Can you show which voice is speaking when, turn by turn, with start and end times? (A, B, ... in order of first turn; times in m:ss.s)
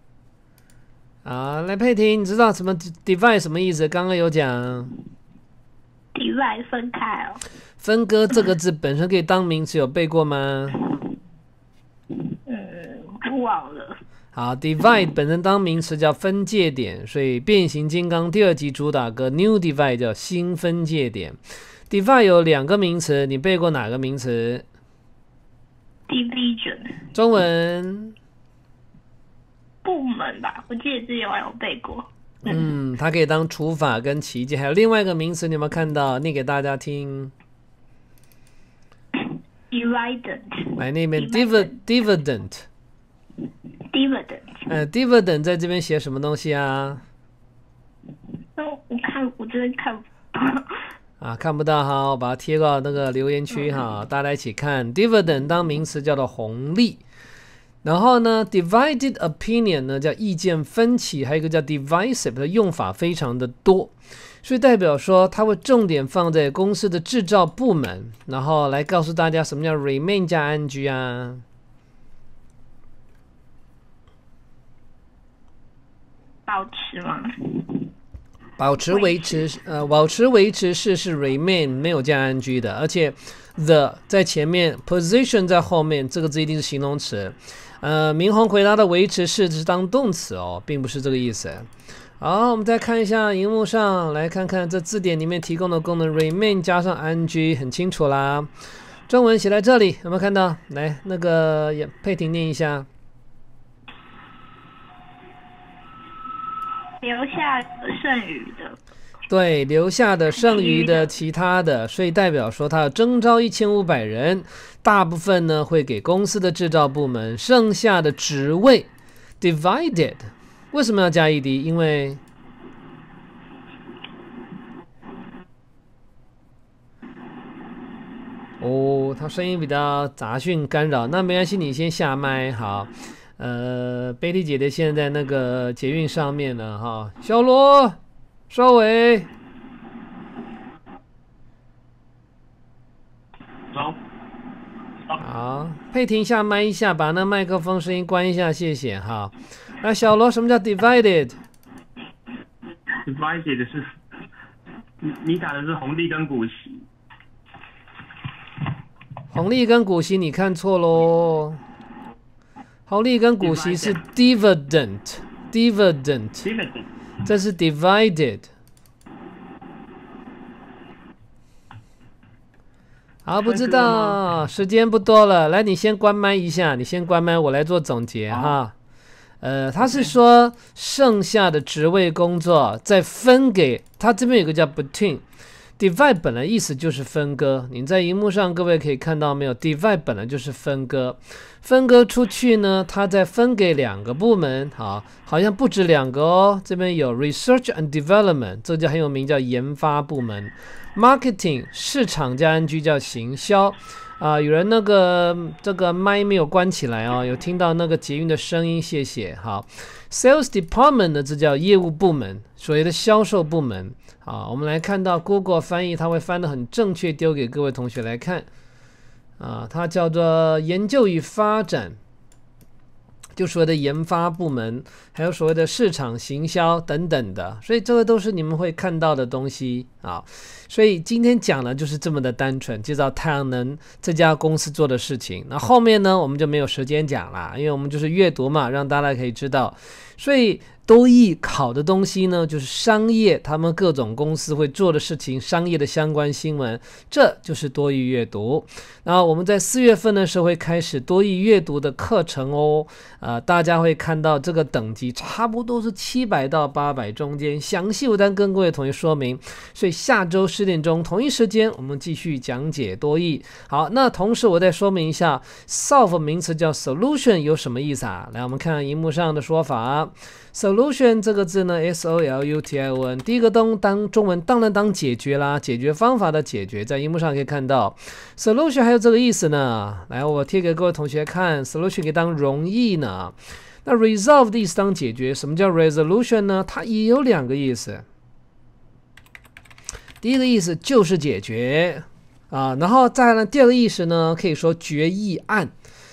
0:01.2-0:04.9 A
0:06.1-0:07.4 B
0:07.8-0:10.8 A
0:12.4-0:14.0 B
0:14.3-0:21.4 A
0:21.9-0:24.6 A
0:26.1-0:27.0 B
0:27.1-0:28.2 A
0:29.8-0:32.6 B
0:32.4-0:37.3 A
0:39.7-0:41.8 B
0:40.8-0:42.6 A
0:43.9-0:44.6 B
0:44.7-0:47.0 A
0:48.6-0:50.6 B
0:51.2-0:57.0 A
0:57.8-1:11.4 A
1:16.5-1:17.8 B
1:18.6-1:31.7 A
1:18.9-1:19.4 B
1:32.2-1:38.5 A
1:39.1-1:42.9 A
1:47.0-1:48.8 B
1:49.3-1:58.9 A
1:50.4-1:51.1 B
1:59.4-2:02.2 A
2:08.6-2:18.0 A
2:18.5-2:19.3 A
2:23.7-2:24.0 C
2:25.2-2:31.4 A
2:33.0-2:33.9 C
2:35.0-2:36.8 C
2:39.3-2:41.6 A
2:42.9-2:46.5 A
2:43.4-2:44.0 C
2:46.4-2:46.9 C
2:47.2-2:48.5 A
2:53.2-2:58.7 A
2:53.4-2:54.2 C
2:58.3-2:58.6 C
2:59.4-3:05.2 A
3:05.8-3:38.5 A
3:39.4-3:42.0 A
3:43.4-4:48.0 A
4:50.2-4:55.7 A